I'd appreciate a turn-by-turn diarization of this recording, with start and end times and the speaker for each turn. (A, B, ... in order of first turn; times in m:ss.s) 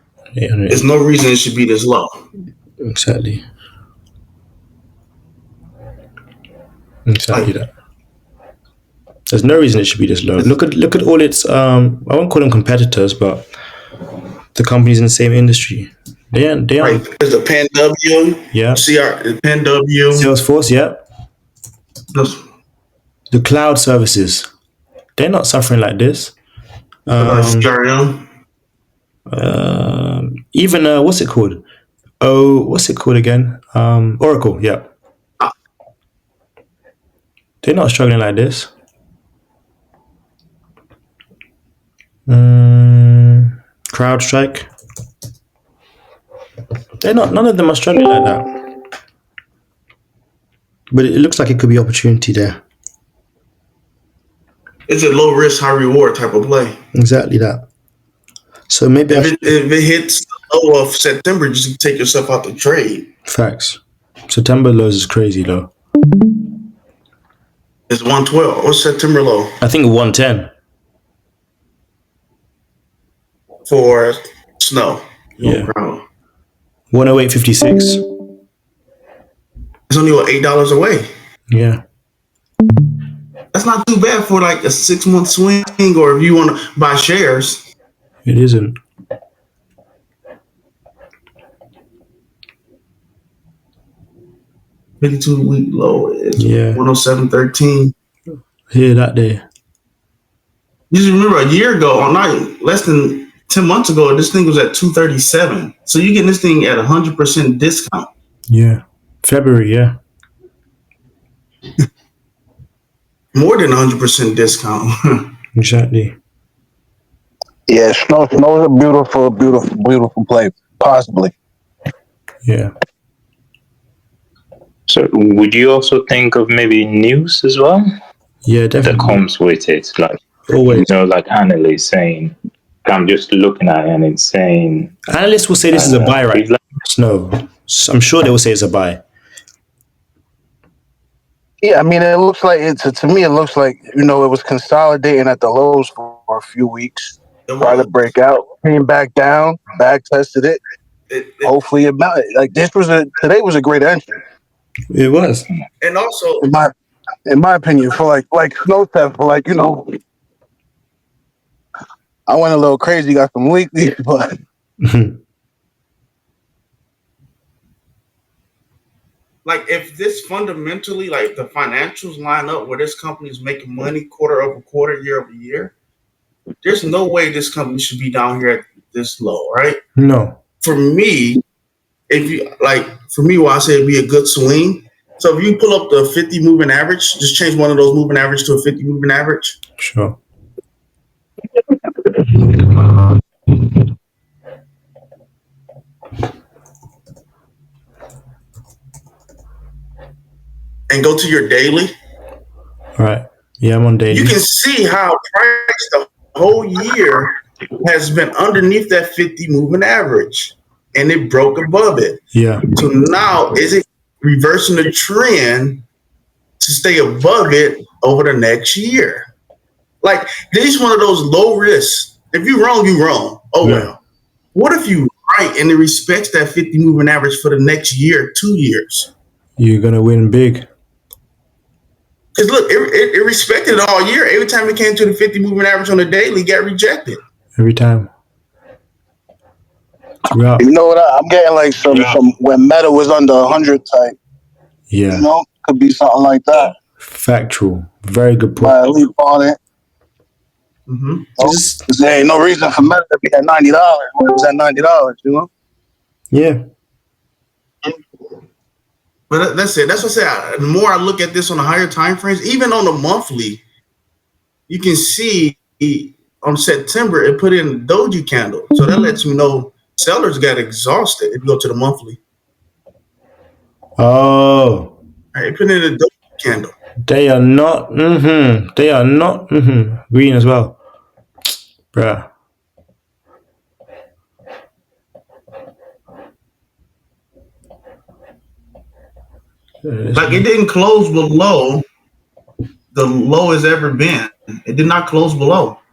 0:00.3-0:00.9 A
0:00.7-0:02.2 B
0:02.8-0:03.4 A
0:07.0-0:07.7 A
0:09.3-0:13.5 A
0:14.5-0:17.0 A
0:16.8-0:20.3 B
0:18.5-0:18.8 A
0:20.1-0:21.0 A
0:22.1-0:22.4 B
0:23.3-0:24.5 A
0:25.2-0:26.4 A
0:27.0-0:27.7 A
0:27.2-0:28.2 B
0:29.3-0:31.6 A
0:32.2-0:34.9 A
0:37.6-0:38.7 A
0:42.3-0:44.7 A
0:47.0-0:48.6 A
0:50.9-0:52.6 A
0:54.9-0:56.8 B
0:56.9-0:57.6 A
0:58.7-0:59.5 A
0:59.1-1:03.1 B
1:03.2-1:05.7 A
1:07.9-1:09.5 B
1:09.6-1:10.5 A
1:13.7-1:16.0 B
1:15.4-1:15.7 A
1:16.9-1:18.0 A
1:19.9-1:21.1 B
1:21.5-1:21.8 A
1:23.5-1:27.6 B
1:28.2-1:28.8 A
1:35.0-1:37.9 B
1:36.4-1:36.8 A
1:38.7-1:39.4 A
1:40.9-1:48.1 B
1:48.5-1:50.0 A
1:53.3-1:55.3 B
1:55.5-1:56.2 A
1:57.7-2:01.3 C
2:02.4-2:02.7 A
2:04.9-2:07.9 D
2:08.4-2:09.2 A
2:08.8-2:14.9 D
2:10.5-2:10.9 A
2:15.1-2:19.0 A
2:15.7-2:16.6 D
2:21.6-2:30.6 C
2:27.5-2:27.9 B
2:31.1-2:31.5 B
2:31.4-2:34.2 C
2:34.9-2:35.4 A
2:35.8-2:36.5 B
2:36.4-2:36.7 C
2:37.2-2:40.0 C
2:42.3-2:44.3 C
2:44.8-2:45.2 A
2:49.4-2:55.7 B
2:56.6-2:59.8 B
3:00.0-3:00.4 A
3:00.6-3:01.4 B
3:02.1-3:09.6 B
3:09.8-3:10.2 A
3:20.9-3:21.9 B
3:23.0-3:24.4 A
3:24.1-3:27.3 B
3:27.8-3:32.2 B
3:32.3-3:32.7 A
3:32.7-3:35.8 B
3:36.6-3:39.3 B
3:40.0-3:44.0 B
3:43.6-3:43.9 A
3:44.5-3:49.1 B
3:49.6-3:50.7 A
3:52.3-3:57.2 B
3:57.6-3:58.1 A
4:00.3-4:00.6 A
4:00.6-4:04.1 C
4:04.9-4:05.3 A
4:05.1-4:06.7 C
4:07.0-4:08.9 A
4:08.6-4:09.6 C
4:10.9-4:11.4 B
4:11.4-4:15.5 C
4:11.4-4:11.8 A
4:16.3-4:16.6 A
4:19.3-4:23.6 B
4:24.7-4:32.2 B
4:34.0-4:34.9 A
4:35.3-4:36.7 B
4:37.0-4:40.8 A
4:41.9-4:42.3 A
4:49.8-4:50.4 A
4:50.1-4:51.8 B
4:52.9-4:55.8 B